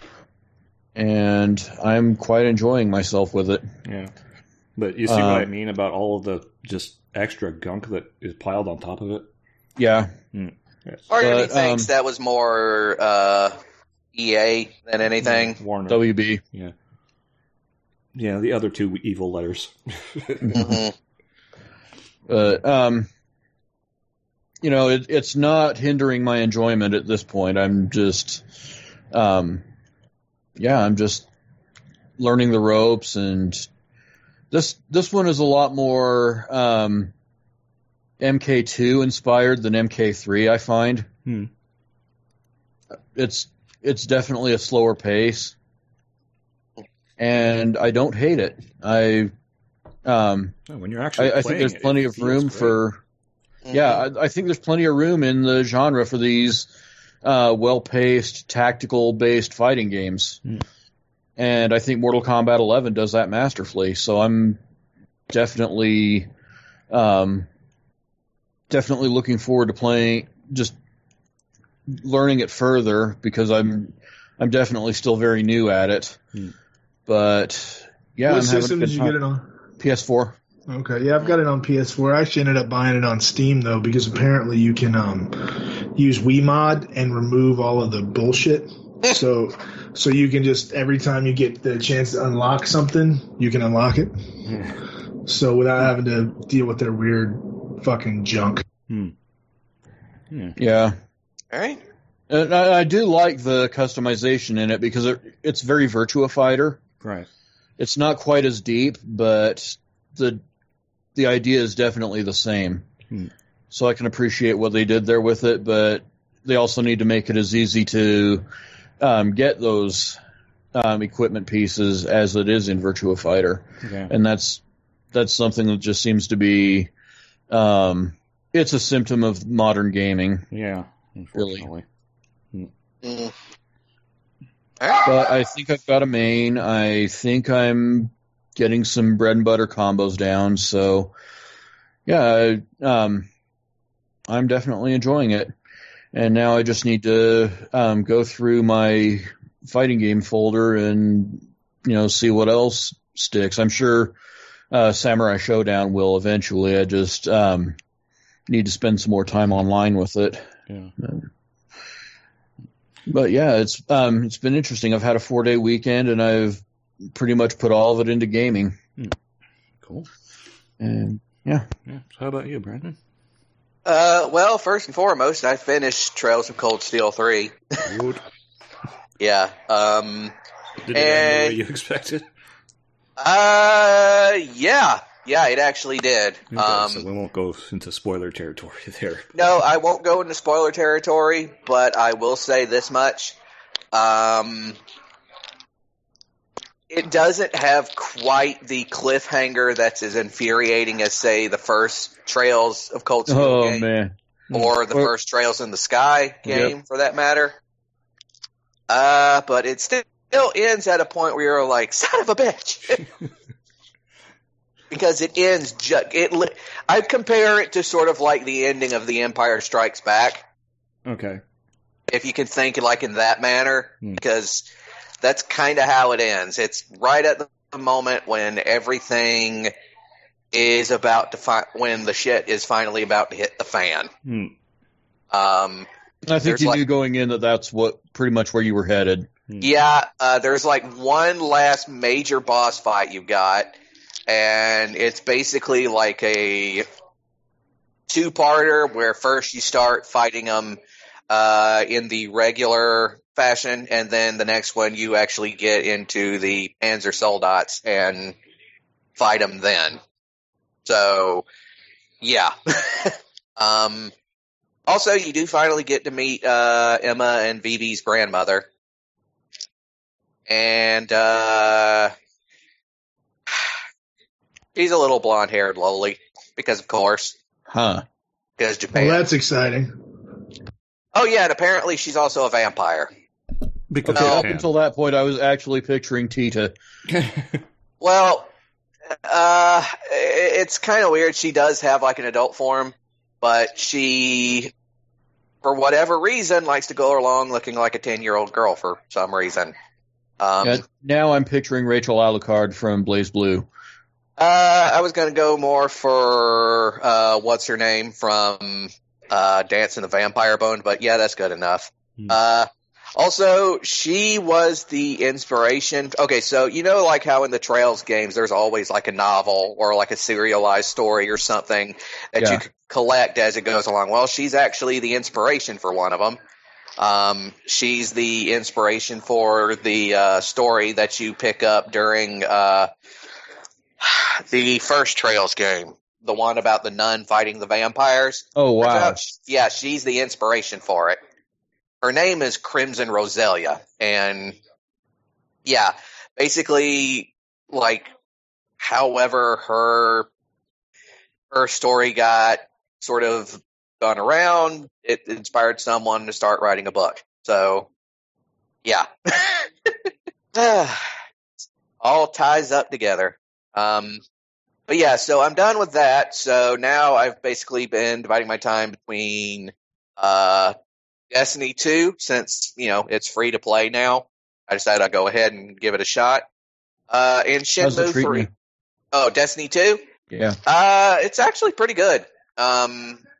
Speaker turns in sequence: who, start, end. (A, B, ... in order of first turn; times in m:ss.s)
0:01.0-0:03.7 A
0:03.8-0:04.1 B
0:04.8-0:09.3 B
0:05.1-0:05.5 A
0:09.8-0:10.1 A
0:10.3-0:11.1 B
0:11.1-0:13.6 C
0:11.2-0:11.9 A
0:14.1-0:15.6 C
0:15.2-0:16.7 B
0:15.9-0:16.4 A
0:18.1-0:20.8 B
0:20.4-0:20.8 A
0:20.6-0:20.9 C
0:22.3-0:23.1 A
0:24.6-0:28.4 A
0:29.1-0:29.6 A
0:30.6-0:31.2 A
0:32.2-0:33.7 A
0:34.5-0:37.1 A
0:38.2-0:41.1 A
0:43.1-0:45.6 A
0:47.2-0:49.3 A
0:50.0-0:50.6 A
0:50.7-0:52.8 B
0:51.2-0:53.0 A
0:53.7-0:54.0 C
0:53.7-0:56.7 A
0:57.2-1:00.4 A
1:01.4-1:04.6 A
1:05.3-1:06.3 A
1:06.9-1:07.5 A
1:08.7-1:10.8 A
1:11.9-1:16.2 A
1:17.1-1:19.2 A
1:18.2-1:19.5 D
1:19.8-1:20.4 A
1:20.7-1:34.1 D
1:34.5-1:34.8 B
1:35.2-1:38.6 D
1:38.9-1:39.1 B
1:40.6-1:41.0 A
1:41.5-1:41.8 C
1:42.3-1:46.8 A
1:47.0-1:47.3 B
1:47.8-1:50.4 A
1:51.1-1:52.9 A
1:53.7-1:58.5 A
1:59.0-2:00.2 A
2:00.7-2:04.6 A
2:03.8-2:04.1 B
2:05.1-2:06.9 A
2:07.5-2:10.5 A
2:10.5-2:11.8 B
2:11.4-2:11.7 A
2:13.0-2:13.3 C
2:14.8-2:15.1 C
2:15.0-2:21.1 A
2:22.1-2:23.3 A
2:24.3-2:25.5 A
2:26.1-2:34.2 A
2:34.7-2:37.8 A
2:38.5-2:41.3 A
2:43.1-2:48.8 A
2:49.8-2:50.1 B
2:50.8-2:51.7 A
2:51.9-2:53.0 B
2:53.8-2:57.6 C
2:57.9-2:58.2 B
2:59.2-3:00.3 C
3:00.8-3:02.3 B
3:00.9-3:01.6 C
3:03.2-3:07.0 C
3:06.5-3:09.4 B
3:09.4-3:13.4 C
3:13.9-3:14.8 C
3:16.9-3:23.9 C
3:23.3-3:24.1 A
3:24.5-3:27.6 C
3:26.5-3:26.7 A
3:28.9-3:33.0 C
3:34.9-3:40.4 C
3:41.1-3:41.4 B
3:42.1-3:44.7 C
3:45.2-3:49.7 C
3:50.5-3:54.1 C
3:54.2-3:54.5 B
3:55.3-3:55.9 C
3:56.2-3:59.3 A
3:56.4-3:56.8 C
3:59.6-4:03.7 C
4:04.3-4:06.8 C
4:08.1-4:18.4 C
4:19.2-4:20.0 C
4:20.9-4:21.4 C
4:22.2-4:24.1 C
4:24.9-4:28.7 C
4:30.5-4:32.1 C
4:34.8-4:37.4 C
4:37.7-4:38.0 A
4:38.6-4:39.3 C
4:38.9-4:40.0 D
4:41.1-4:43.1 C
4:43.9-4:44.7 B
4:44.1-4:46.7 A
4:44.1-4:44.4 C
4:47.1-4:47.6 B
4:48.0-4:48.5 C
4:49.3-4:54.7 C
4:55.6-4:59.7 C
5:00.4-5:00.8 C
5:00.6-5:03.7 A
5:04.4-5:26.4 C
5:27.0-5:32.9 C
5:34.0-5:41.2 C
5:38.6-5:39.3 A
5:42.0-5:44.6 C
5:45.7-5:48.1 C
5:48.8-5:50.3 C
5:51.5-5:57.9 C
5:58.8-6:01.0 C
6:02.0-6:04.2 C
6:04.9-6:10.7 C
6:11.3-6:16.5 C
6:17.1-6:18.5 C
6:17.8-6:18.5 A
6:19.1-6:20.0 C
6:20.3-6:20.6 A
6:20.6-6:23.2 C